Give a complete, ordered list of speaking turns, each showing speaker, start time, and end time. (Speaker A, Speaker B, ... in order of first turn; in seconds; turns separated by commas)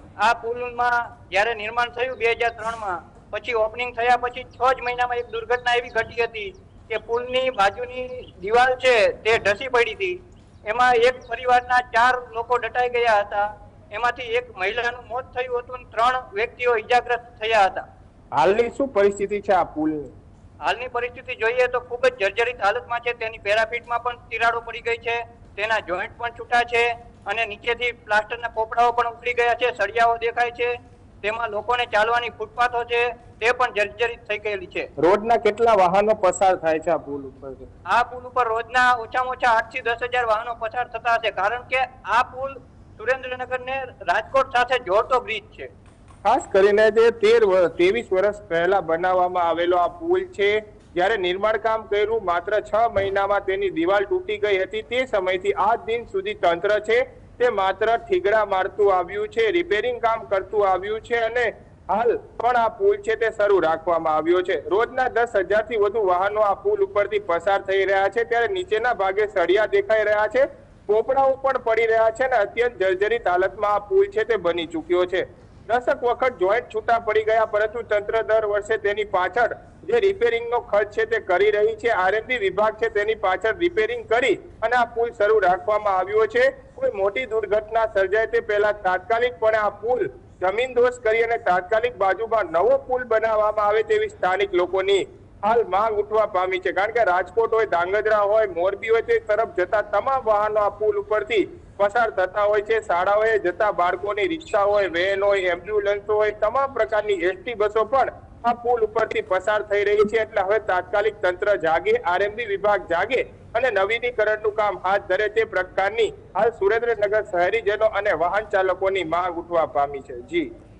Speaker A: 0.2-17.8, Speaker B: 18.4-20.1, Speaker A: 20.6-34.9, Speaker B: 35.0-37.7, Speaker A: 37.9-45.7, Speaker B: 46.2-120.5